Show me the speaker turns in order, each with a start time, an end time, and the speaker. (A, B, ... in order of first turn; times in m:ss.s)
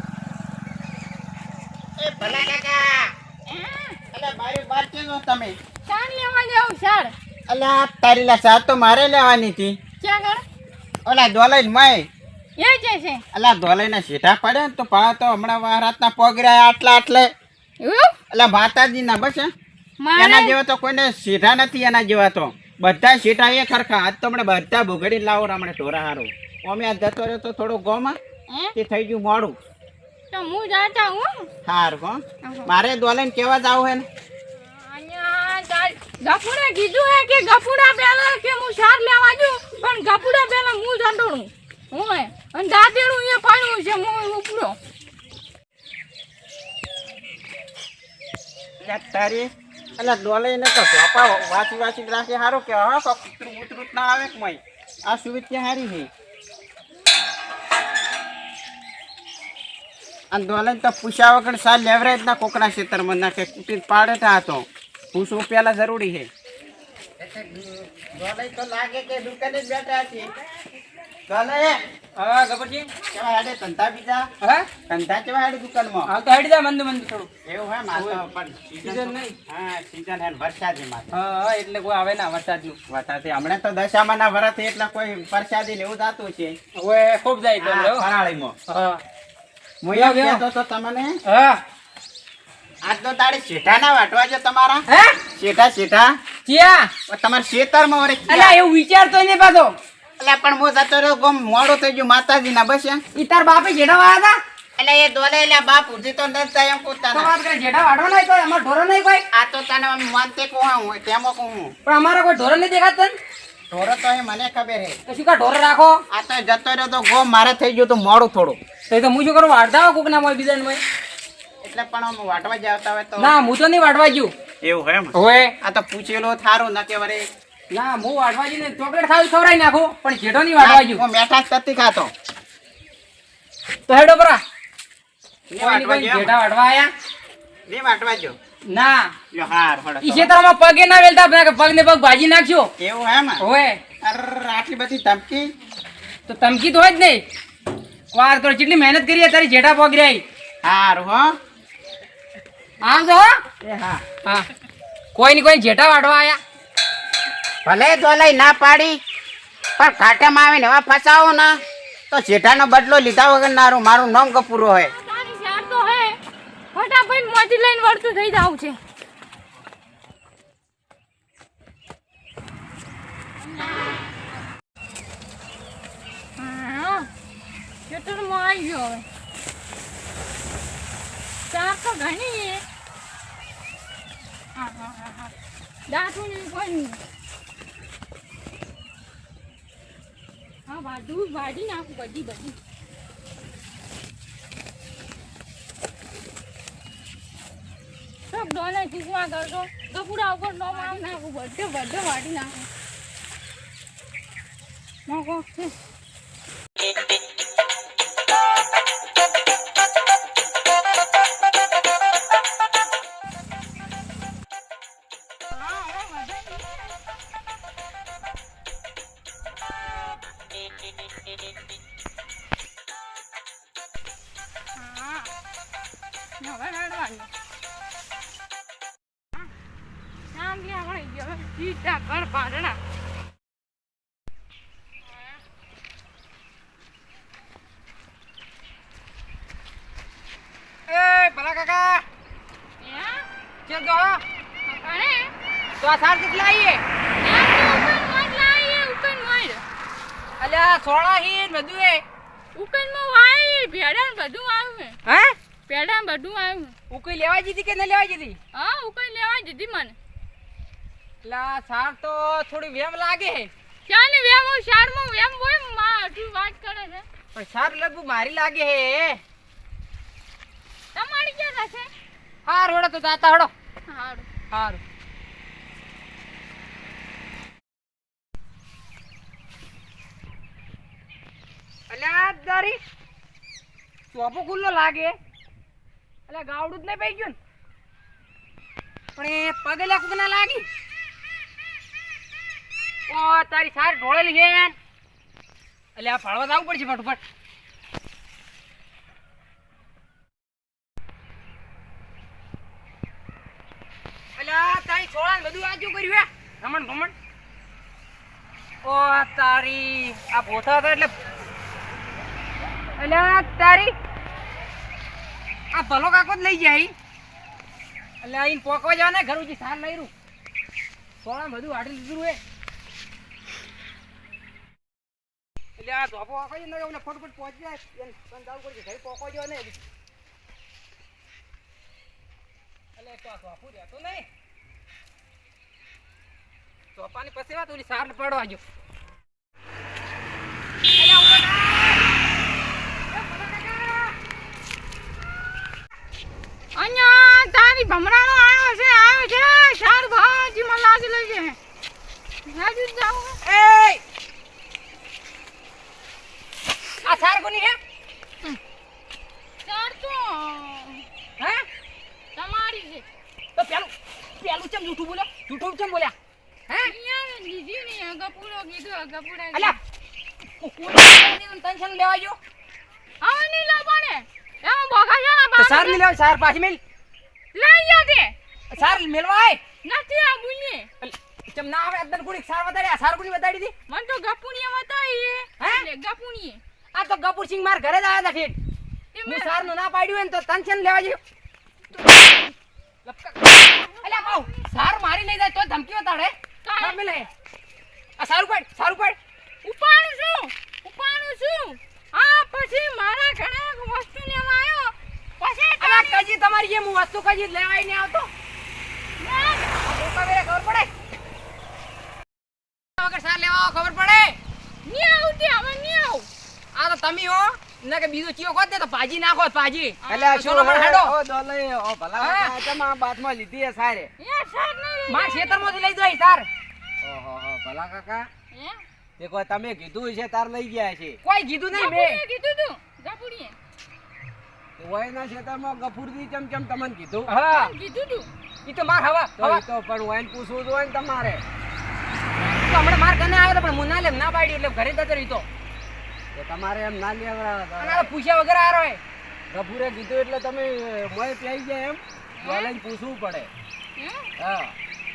0:02.0-0:03.1 A
0:03.5-0:04.0 B
0:04.1-0:05.6 A
0:05.8-0:07.1 B
0:07.5-0:09.8 A
0:10.0-0:10.4 B
0:11.0-0:12.0 A
0:12.6-0:13.2 B
0:13.3-0:17.3 A
0:17.8-0:18.1 B
0:18.3-0:19.5 A
0:20.0-0:20.6 B
0:20.2-0:28.2 A
0:28.5-0:28.7 B
0:28.7-0:29.6 A
0:30.3-0:31.5 B
0:31.6-0:34.0 A
0:32.4-0:32.7 B
0:34.6-0:44.8 B
0:48.8-0:56.1 A
1:00.3-1:06.3 A
1:07.2-1:10.3 A
1:11.3-1:11.8 A
1:12.2-1:12.9 C
1:13.1-1:14.2 A
1:14.4-1:14.7 C
1:14.9-1:16.1 A
1:16.1-1:17.3 C
1:17.4-1:21.1 A
1:17.9-1:18.2 C
1:18.8-1:19.3 C
1:21.1-1:22.8 C
1:22.9-1:26.6 A
1:26.8-1:28.1 C
1:27.6-1:28.5 A
1:28.7-1:29.0 C
1:29.8-1:31.1 A
1:29.9-1:30.4 C
1:31.2-1:31.6 C
1:32.8-1:34.8 A
1:34.9-1:35.2 C
1:35.4-1:36.1 A
1:36.4-1:36.9 C
1:37.1-1:38.6 A
1:38.3-1:39.7 C
1:40.2-1:43.0 A
1:43.1-1:44.4 C
1:44.8-1:47.3 A
1:47.1-1:49.2 C
1:49.3-1:51.7 A
1:51.8-1:53.2 C
1:53.7-1:55.0 A
1:55.1-1:56.0 C
1:56.1-1:58.6 A
1:58.9-2:00.8 C
2:01.6-2:03.3 A
2:03.2-2:04.3 C
2:04.6-2:07.2 A
2:05.1-2:05.5 C
2:07.7-2:11.0 C
2:10.6-2:12.1 A
2:13.9-2:14.4 C
2:15.5-2:16.3 A
2:15.6-2:16.9 C
2:17.7-2:18.4 A
2:18.7-2:19.1 C
2:19.3-2:20.3 A
2:20.0-2:22.7 C
2:22.8-2:23.4 A
2:23.4-2:23.8 C
2:24.0-2:25.4 A
2:26.3-2:27.2 C
2:28.1-2:30.2 C
2:30.6-2:31.3 A
2:32.8-2:33.4 C
2:33.6-2:34.0 A
2:35.1-2:36.4 C
2:37.6-2:39.0 A
2:39.8-2:41.5 A
2:42.1-2:44.9 A
2:44.9-2:46.2 B
2:46.7-2:48.8 B
2:56.4-2:57.1 B
2:57.9-2:59.0 B
3:01.5-3:02.6 B
3:04.6-3:05.3 B
3:05.9-3:07.0 B
3:10.7-3:12.6 B
3:18.3-3:22.7 B
3:25.1-3:25.7 B
3:35.5-3:36.9 B
3:44.7-3:45.3 B
3:46.4-3:47.3 B
3:50.3-3:52.8 B
4:00.9-4:02.0 C
4:02.8-4:03.3 B
4:03.6-4:04.2 C
4:04.6-4:05.3 B
4:05.8-4:06.8 C
4:07.2-4:09.6 B
4:10.4-4:12.0 C
4:12.5-4:15.0 B
4:15.0-4:15.3 C
4:15.7-4:16.7 B
4:16.9-4:18.4 C
4:18.5-4:19.9 B
4:21.2-4:23.5 C
4:23.9-4:27.0 B
4:27.3-4:29.2 C
4:30.9-4:31.9 B
4:32.4-4:33.5 C
4:33.9-4:34.3 B
4:34.5-4:34.8 C
4:41.9-4:42.8 C
4:44.1-4:45.2 C
4:46.3-4:47.4 C
4:49.2-4:50.7 C
4:53.1-4:54.8 C
4:56.0-4:57.2 C
5:04.4-5:07.1 C
5:08.8-5:11.1 C
5:13.0-5:14.0 C
5:15.7-5:16.9 C
5:18.2-5:20.1 C
5:21.2-5:22.4 C
5:25.8-5:29.8 C
5:33.0-5:34.3 C
5:36.9-5:38.6 C
5:41.0-5:42.1 C
5:43.1-5:44.1 C
5:46.7-5:51.6 B
5:52.5-5:53.4 B
5:53.4-5:54.0 C
5:57.0-5:57.8 C
5:59.6-6:01.0 B
6:01.4-6:01.7 C
6:02.3-6:03.0 B
6:03.6-6:06.1 C
6:06.8-6:09.8 B
6:10.6-6:12.4 C
6:13.2-6:16.0 B
6:15.6-6:16.8 C
6:17.5-6:19.0 B
6:18.7-6:19.6 C
6:19.8-6:20.9 B
6:21.0-6:23.7 C
6:23.9-6:26.6 B
6:26.9-6:28.6 C
6:29.1-6:29.7 B
6:29.2-6:31.2 C
6:31.9-6:32.5 C
6:33.0-6:37.3 C
6:33.6-6:34.7 B
6:36.6-6:37.0 B
6:38.2-6:39.2 C
6:39.6-6:46.2 B
6:45.8-6:48.3 C
6:49.2-6:49.7 B
6:49.8-6:50.9 C
6:53.0-6:54.4 C
6:54.8-6:56.3 B
6:56.7-7:01.1 C
7:00.0-7:00.4 B
7:00.1-7:04.1 D
7:02.2-7:02.5 C
7:04.2-7:05.8 B
7:05.1-7:06.5 C
7:07.0-7:08.3 D
7:08.5-7:08.8 B
7:09.2-7:11.2 D
7:11.2-7:12.2 C
7:11.7-7:13.6 B
7:14.8-7:17.3 D
7:17.2-7:17.7 C
7:17.5-7:18.3 B
7:18.6-7:19.6 C
7:19.4-7:21.4 D
7:22.4-7:25.4 C
7:26.3-7:28.1 D
7:27.8-7:29.0 C
7:29.5-7:33.5 D
7:32.4-7:32.7 B
7:34.0-7:34.3 B
7:34.4-7:34.7 D